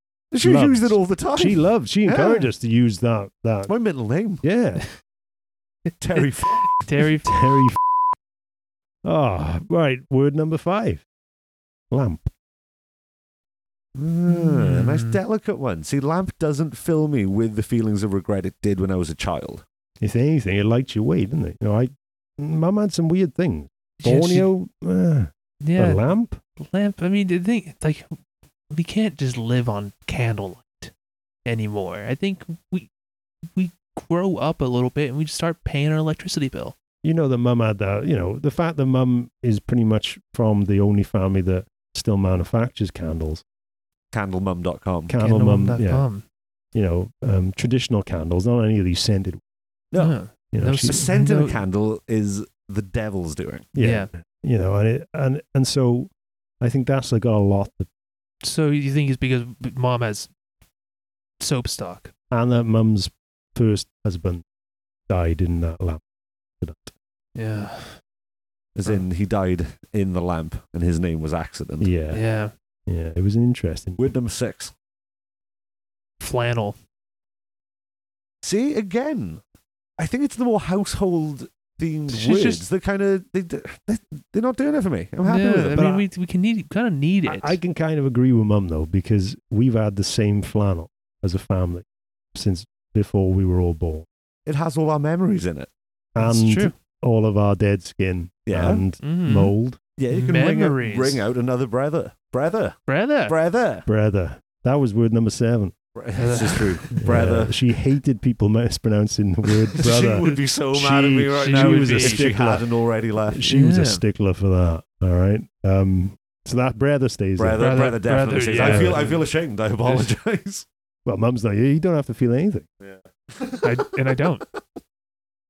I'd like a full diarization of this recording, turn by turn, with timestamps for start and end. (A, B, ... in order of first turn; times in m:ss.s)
0:00.3-0:02.5 A
0:00.4-0:03.7 B
0:03.7-0:04.4 A
0:04.4-0:04.8 B
0:06.0-0:06.8 A
0:06.7-0:07.5 C
0:07.3-0:07.8 B
0:09.0-0:11.0 B
0:11.9-0:12.3 B
0:13.9-0:19.6 A
0:14.3-0:15.2 C
0:20.0-0:26.4 B
0:24.0-0:24.5 C
0:25.6-0:28.2 C
0:28.7-0:30.9 C
0:31.4-0:32.9 C
0:33.5-0:36.7 C
0:37.0-0:43.4 B
0:44.1-0:45.2 A
0:45.1-0:46.0 B
0:45.2-0:46.2 C
0:46.7-0:49.4 B
0:49.9-0:50.2 A
0:50.0-0:51.6 C
0:50.5-0:51.1 B
0:50.8-0:53.7 A
0:53.7-0:57.9 B
0:53.8-0:54.1 C
0:58.4-1:00.3 C
1:01.4-1:02.1 C
1:02.3-1:04.4 B
1:05.1-1:06.0 B
1:06.6-1:06.9 B
1:07.3-1:08.0 C
1:08.8-1:11.9 A
1:11.8-1:12.2 B
1:12.1-1:12.5 C
1:12.9-1:14.0 B
1:14.0-1:14.7 A
1:16.2-1:16.8 C
1:18.4-1:19.4 A
1:20.0-1:25.8 A
1:22.1-1:22.6 C
1:25.2-1:27.6 C
1:25.7-1:26.0 B
1:27.2-1:34.0 B
1:34.4-1:35.7 A
1:36.1-1:39.8 B
1:36.2-1:36.7 C
1:38.4-1:38.8 A
1:39.0-1:39.5 C
1:40.0-1:43.9 A
1:40.1-1:41.2 C
1:42.9-1:43.3 C
1:43.8-1:45.7 B
1:45.9-1:47.6 A
1:46.2-1:46.9 C
1:47.0-1:52.6 B
1:49.7-1:53.5 A
1:51.4-1:52.2 C
1:53.3-1:57.7 B
1:53.5-1:54.0 C
1:57.4-2:00.6 A
1:57.6-1:59.2 C
1:58.5-1:59.2 B
2:01.0-2:02.6 B
2:02.8-2:03.7 A
2:03.6-2:04.4 C